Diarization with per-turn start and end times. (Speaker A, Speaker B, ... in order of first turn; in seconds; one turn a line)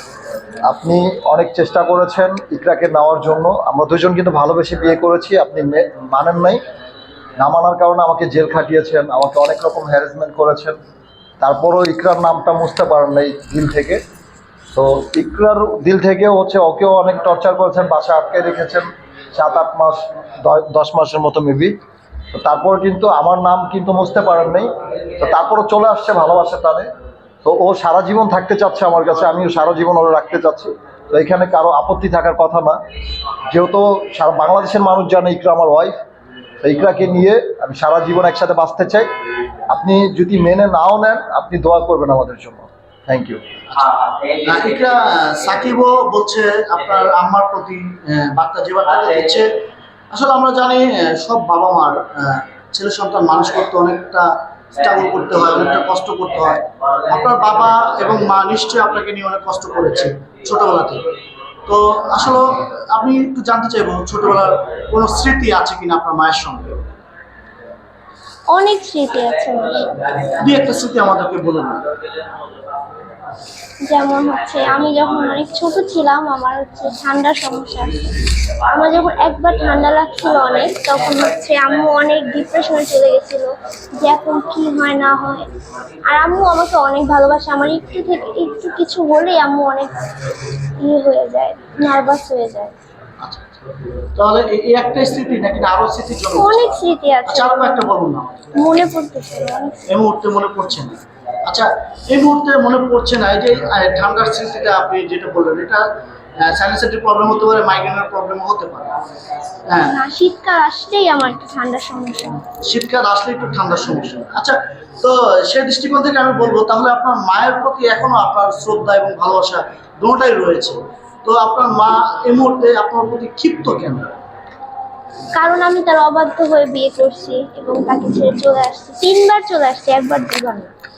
Speaker A: 0.6-6.6
Speaker A: 7.4-10.8
Speaker A: 11.4-14.0
Speaker A: 14.7-21.8
Speaker A: 22.3-26.9
Speaker A: 27.4-32.8
Speaker A: 33.5-36.0
Speaker A: 36.6-39.1
Speaker A: 39.7-43.4
Speaker B: 43.8-49.5
Speaker B: 50.1-61.1
Speaker B: 61.7-66.8
Speaker C: 68.5-70.3
Speaker B: 70.4-71.8
Speaker C: 73.9-85.5
Speaker C: 86.1-90.0
Speaker C: 90.8-92.7
Speaker B: 93.2-93.6
Speaker B: 94.2-98.5
Speaker C: 96.3-97.9
Speaker C: 98.6-99.9
Speaker B: 99.9-109.0
Speaker B: 109.7-110.0
Speaker C: 109.8-112.5
Speaker B: 112.6-124.1
Speaker C: 125.3-130.7